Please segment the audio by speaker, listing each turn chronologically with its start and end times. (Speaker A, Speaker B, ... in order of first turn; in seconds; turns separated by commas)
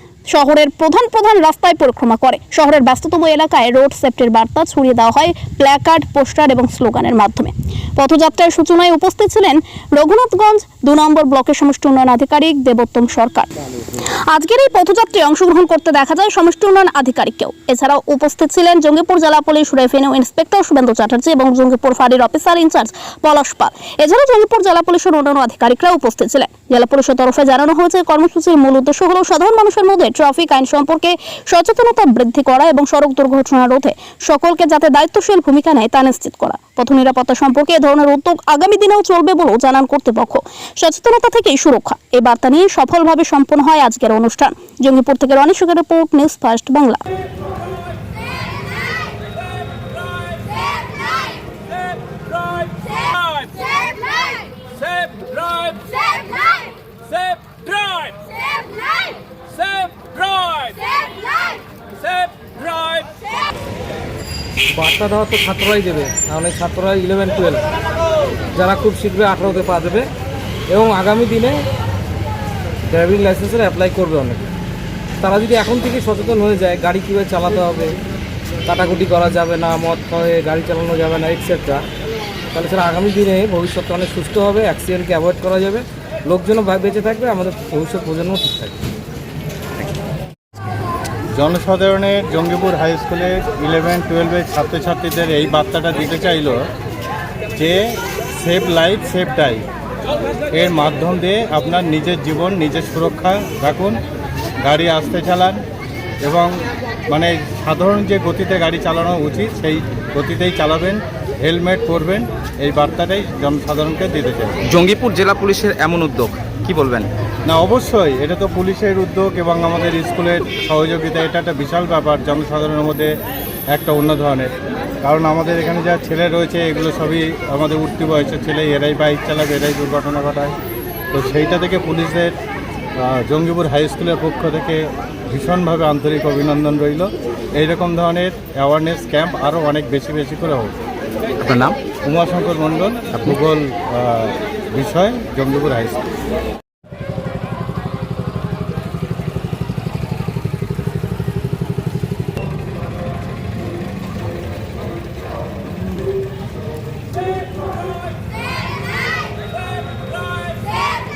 Speaker A: 0.3-13.5, Speaker A: 14.3-47.0, Speaker B: 51.9-56.4, Speaker B: 57.1-58.4, Speaker B: 59.5-61.1, Speaker B: 62.0-63.2, Speaker B: 64.8-67.7, Speaker B: 68.5-70.1, Speaker B: 70.7-71.6, Speaker B: 72.9-74.5, Speaker B: 75.2-77.9, Speaker B: 78.7-81.8, Speaker B: 82.5-88.8, Speaker C: 91.3-96.6, Speaker C: 97.5-99.6, Speaker C: 100.5-104.0, Speaker C: 104.6-105.6, Speaker C: 106.2-114.6, Speaker D: 114.7-117.1, Speaker C: 117.5-123.1, Speaker C: 123.7-124.5, Speaker C: 125.0-130.6, Speaker C: 131.1-132.3, Speaker C: 133.0-140.7, Speaker D: 141.4-141.8, Speaker C: 142.0-146.0